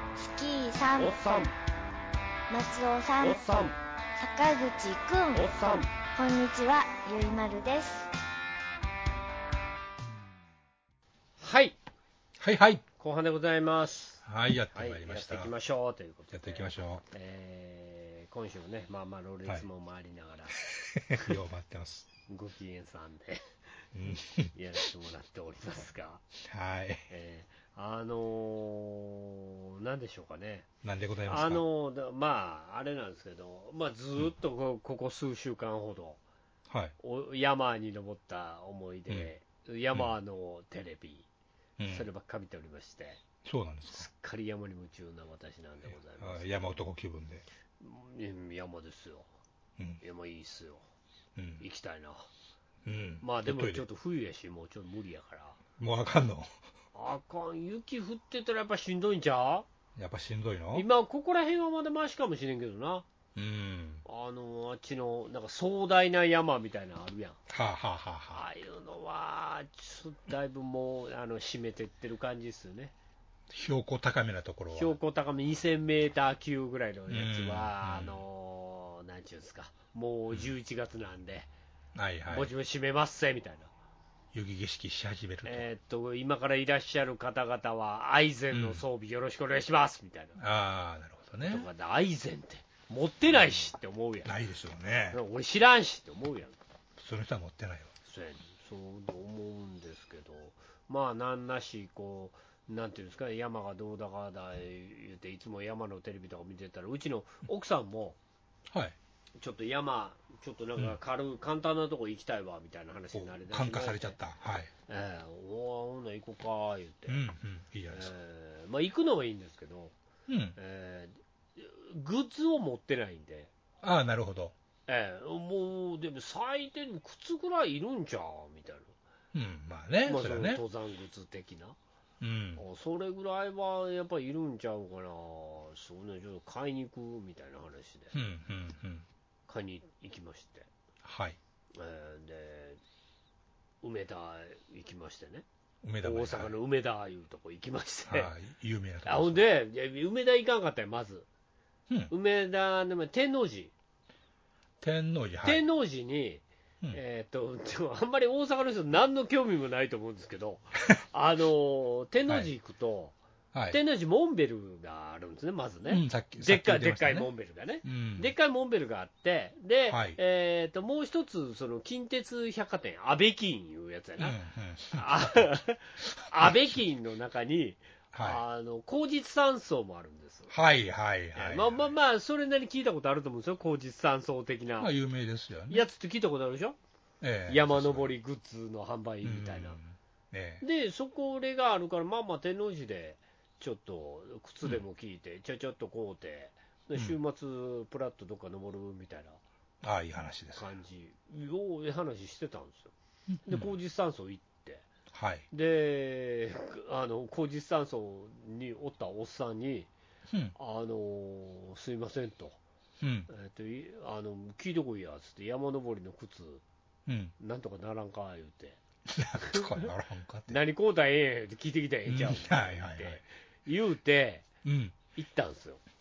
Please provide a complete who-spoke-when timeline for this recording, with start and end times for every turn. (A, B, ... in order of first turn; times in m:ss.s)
0:00.2-0:01.2 A
0:01.0-0:01.5 B
0:02.5-0:03.6 A
0:03.2-0:03.8 B
0:04.2-0:05.5 A
0:05.3-0:05.9 B
0:06.1-0:08.1 A
0:11.4-0:11.8 B
0:12.4-0:12.8 C
0:13.0-0:21.3 B
0:14.2-0:15.5 C
0:16.3-0:17.0 C
0:20.9-0:22.1 C
0:22.3-0:23.4 B
0:23.9-0:24.5 C
0:24.5-0:26.2 B
0:26.4-0:27.0 C
0:27.1-0:30.7 B
0:30.8-0:31.6 C
0:31.3-0:36.2 B
0:36.7-0:36.9 C
0:37.0-0:41.3 B
0:41.8-0:42.1 C
0:41.9-0:43.2 B
0:43.4-0:44.1 C
0:43.9-0:46.8 B
0:45.9-0:47.4 C
0:47.8-0:49.3 B
0:50.0-0:50.8 B
0:51.4-0:51.6 C
0:51.6-0:52.3 B
0:52.8-0:53.8 C
0:53.2-0:55.6 B
0:55.8-0:56.5 C
0:56.9-0:59.7 B
1:00.0-1:00.9 C
1:00.7-1:03.1 B
1:03.4-1:04.0 C
1:04.0-1:07.4 B
1:07.5-1:08.4 C
1:08.3-1:12.9 B
1:13.5-1:14.9 C
1:14.8-1:21.5 B
1:17.1-1:18.2 C
1:22.0-1:22.5 C
1:22.3-1:23.7 B
1:24.3-1:25.6 C
1:25.4-1:30.4 B
1:28.5-1:28.8 C
1:30.4-1:31.7 C
1:31.5-1:34.3 B
1:34.3-1:35.2 C
1:35.1-1:36.6 B
1:37.0-1:37.9 C
1:38.1-1:48.2 B
1:48.7-1:49.0 C
1:49.4-1:54.2 B
1:53.1-1:54.7 C
1:54.9-1:57.2 B
1:57.1-1:58.1 C
1:57.9-1:59.9 B
2:00.3-2:00.6 C
2:00.6-2:03.5 B
2:03.8-2:04.6 C
2:04.9-2:08.9 B
2:09.3-2:10.6 C
2:10.0-2:11.8 B
2:12.2-2:12.6 C
2:12.6-2:18.1 B
2:18.1-2:19.1 C
2:19.5-2:20.7 B
2:21.0-2:21.4 C
2:21.8-2:22.8 B
2:23.8-2:25.4 B
2:25.8-2:26.5 C
2:26.0-2:28.3 B
2:28.1-2:29.4 C
2:29.0-2:31.3 B
2:32.1-2:33.7 B
2:34.8-2:35.6 C
2:35.4-2:43.2 B
2:43.5-2:43.8 C
2:43.7-2:54.4 B
2:45.9-2:47.3 C
2:47.8-2:48.3 C
2:49.9-2:50.2 C
2:54.2-2:55.4 C
2:54.9-3:00.5 B
2:56.4-2:56.8 C
2:58.1-2:58.4 C
3:00.5-3:01.9 C
3:01.4-3:04.9 B
3:04.8-3:05.9 C
3:05.7-3:06.8 B
3:07.2-3:08.1 C
3:07.5-3:09.8 B
3:09.2-3:10.6 C
3:10.6-3:19.4 B
3:19.8-3:20.7 C
3:20.6-3:22.9 B
3:23.3-3:23.7 C
3:23.5-3:24.9 B
3:25.1-3:25.5 C
3:25.5-3:29.9 B
3:30.6-3:32.6 B
3:33.0-3:33.3 C
3:33.3-3:36.6 B
3:37.1-3:37.3 C
3:37.4-3:38.8 B
3:39.1-3:40.6 C
3:39.4-3:39.9 B
3:40.5-3:44.5 B
3:42.1-3:43.2 C
3:44.6-3:45.0 C
3:45.2-3:45.8 B